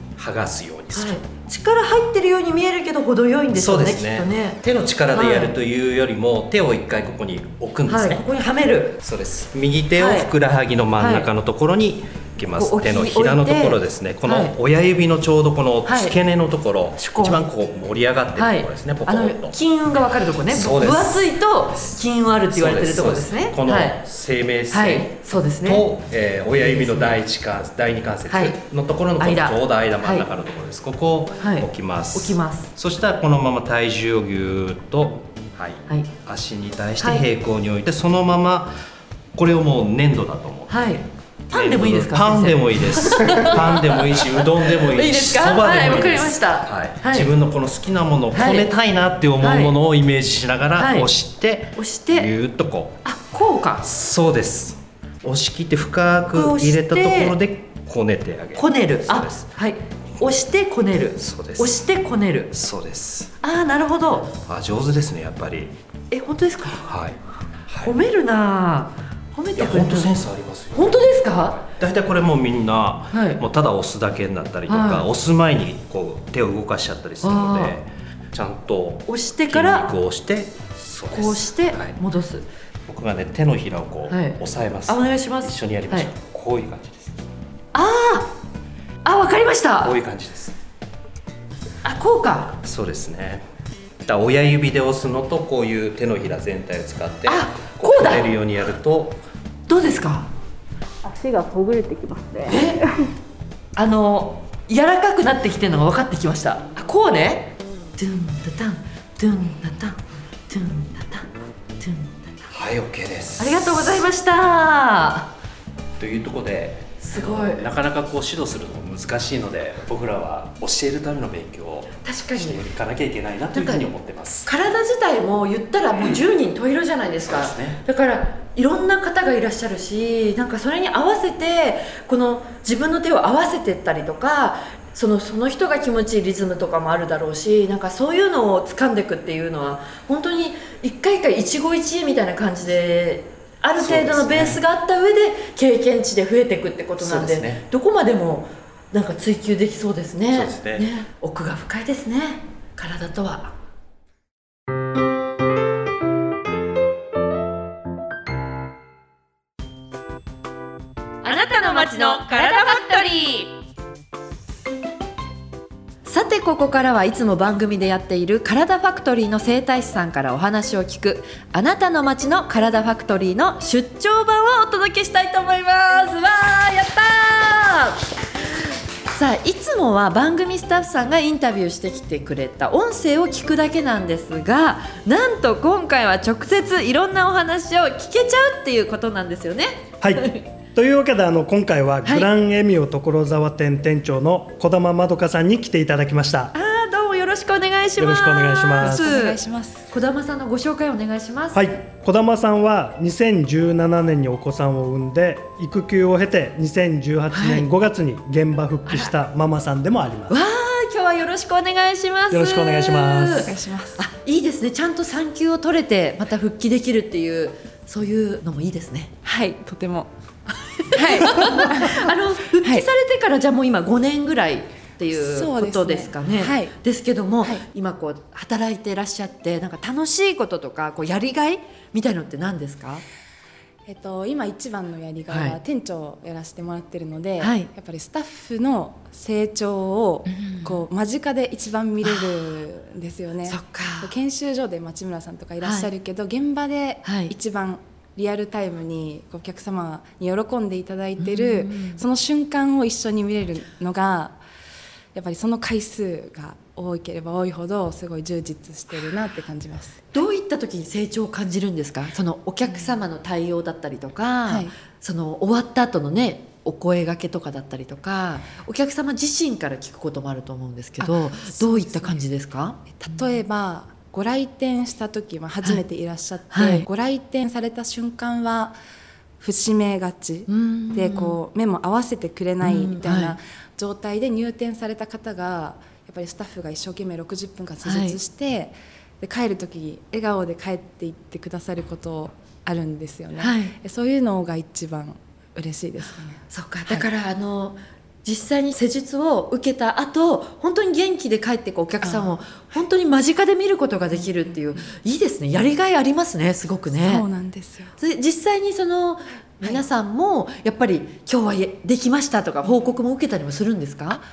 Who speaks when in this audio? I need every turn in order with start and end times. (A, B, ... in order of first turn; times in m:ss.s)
0:00.2-0:01.2 A
0:00.9-0:04.6 B
0:03.5-0:08.2 A
0:05.1-0:05.5 B
0:07.9-0:09.0 B
0:09.0-0:19.6 A
0:10.0-0:10.3 B
0:11.0-0:11.3 B
0:12.6-0:14.5 B
0:15.8-0:16.2 B
0:17.0-0:17.5 B
0:18.4-0:24.0 B
0:20.5-0:21.4 A
0:22.5-0:38.8 A
0:24.7-0:25.9 B
0:26.6-0:27.2 B
0:28.3-0:28.6 B
0:29.2-0:30.3 B
0:31.4-0:32.7 B
0:37.0-0:37.3 B
0:39.4-0:41.0 A
0:40.7-0:47.3 B
0:41.5-0:53.0 A
0:48.3-0:48.7 B
0:49.4-0:49.7 B
0:50.8-0:51.1 B
0:51.8-0:52.3 B
0:53.0-0:53.9 B
0:53.8-0:59.5 A
0:56.3-0:57.4 B
0:58.6-1:02.5 B
1:01.2-1:01.9 A
1:02.5-1:03.3 A
1:03.4-1:04.3 B
1:04.4-1:05.8 A
1:06.1-1:06.9 B
1:06.8-1:08.0 A
1:07.8-1:10.1 B
1:09.6-1:11.1 A
1:10.7-1:11.7 B
1:11.8-1:22.0 A
1:13.1-1:13.4 B
1:14.7-1:15.1 B
1:17.2-1:17.8 B
1:19.1-1:19.9 B
1:21.1-1:22.5 B
1:22.9-1:27.3 A
1:24.1-1:26.1 B
1:27.7-1:28.3 B
1:29.0-1:30.0 B
1:29.8-1:30.6 A
1:31.8-1:32.6 B
1:32.6-1:33.4 A
1:34.0-1:39.2 A
1:37.3-1:38.3 B
1:39.7-1:40.3 B
1:41.0-1:43.1 C
1:42.4-1:42.8 B
1:43.8-1:51.3 B
1:51.8-1:52.4 B
1:52.5-1:53.9 A
1:53.4-1:55.3 B
1:56.0-2:04.5 A
1:57.0-1:57.6 B
2:02.0-2:02.6 B
2:03.5-2:03.9 B
2:04.4-2:33.5 B
2:07.2-2:07.8 A
2:23.8-2:24.6 A
2:27.0-2:27.6 A
2:30.3-2:30.9 A
2:41.2-2:43.1 B
2:41.2-2:43.5 D
2:46.1-2:58.0 B
2:59.1-3:10.5 B
3:10.0-3:16.5 E
3:16.5-3:21.6 B
3:18.0-3:19.2 E
3:18.8-3:19.9 F
3:21.5-3:30.4 E
3:27.3-3:27.7 B
3:28.9-3:29.1 B
3:30.3-3:39.1 B
3:32.3-3:33.5 E
3:33.4-3:34.0 F
3:39.2-3:40.1 F
3:40.7-3:53.0 B
3:40.9-3:42.9 F
3:45.1-3:46.7 F
3:53.9-4:14.4 F
3:55.3-3:55.6 B
3:57.4-3:57.7 B
4:00.3-4:00.8 B
4:02.0-4:02.4 B
4:03.5-4:04.1 B
4:05.6-4:05.9 B
4:07.0-4:07.3 B
4:11.2-4:12.0 B
4:15.1-4:20.0 F
4:20.1-4:33.2 B
4:22.7-4:22.9 F
4:24.5-4:24.7 F
4:31.0-4:32.2 F
4:32.9-4:38.8 F
4:36.5-4:36.9 B
4:39.4-4:57.1 F
4:40.5-4:41.4 B
4:42.6-4:43.4 B
4:47.8-4:48.2 B
4:53.4-4:53.8 B
4:56.5-5:07.3 B
5:02.0-5:02.3 F
5:04.2-5:04.8 F
5:07.0-5:07.9 F
5:08.0-5:14.2 B
5:12.6-5:12.9 F